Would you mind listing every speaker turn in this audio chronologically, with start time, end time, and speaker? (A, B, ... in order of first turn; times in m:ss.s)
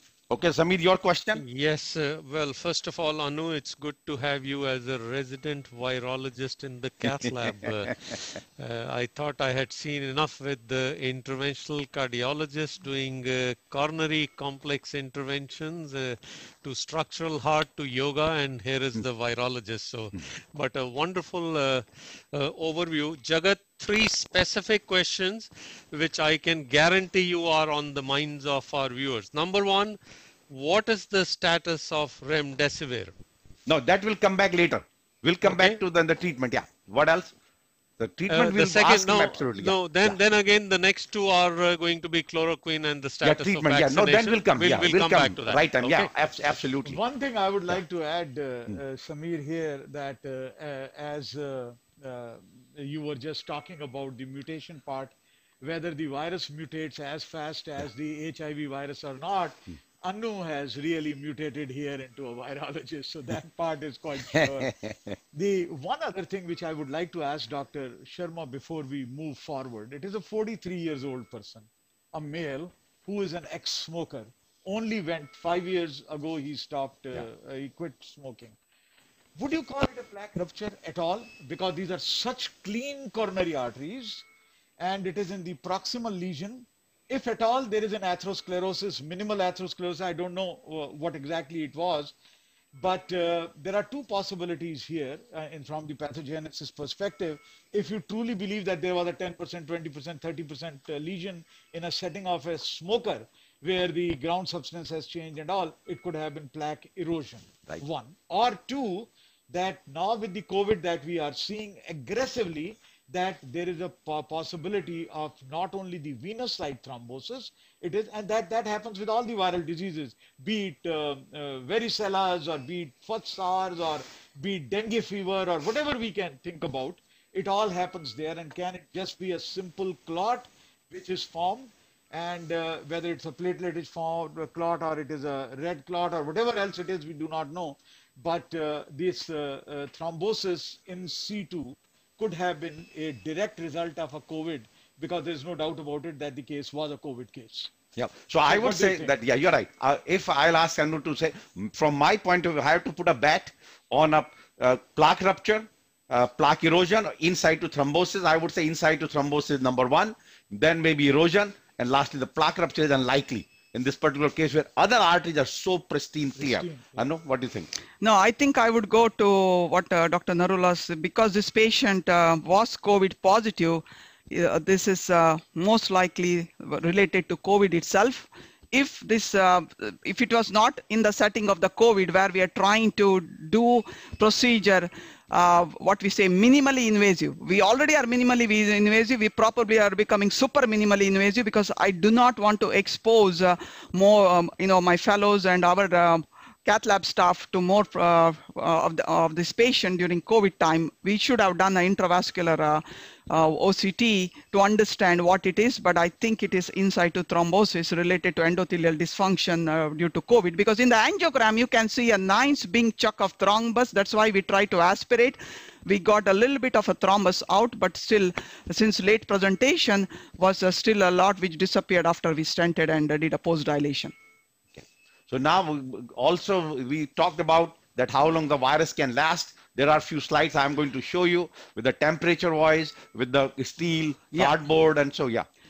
0:00.3-0:01.4 A
0:01.4-0:30.0 B
0:30.5-0:33.1 B
0:33.7-0:37.3 A
0:35.4-0:35.8 B
0:38.0-0:40.2 A
0:38.3-0:46.1 B
0:43.2-0:47.0 A
0:46.8-1:04.7 C
1:04.4-1:05.1 A
1:05.3-1:18.5 C
1:19.4-1:24.2 C
1:24.8-1:32.1 C
1:32.7-2:27.7 C
2:28.0-2:47.7 A
2:28.4-2:29.1 C
2:46.4-2:47.0 C
2:48.0-3:44.1 D
3:44.7-3:55.4 A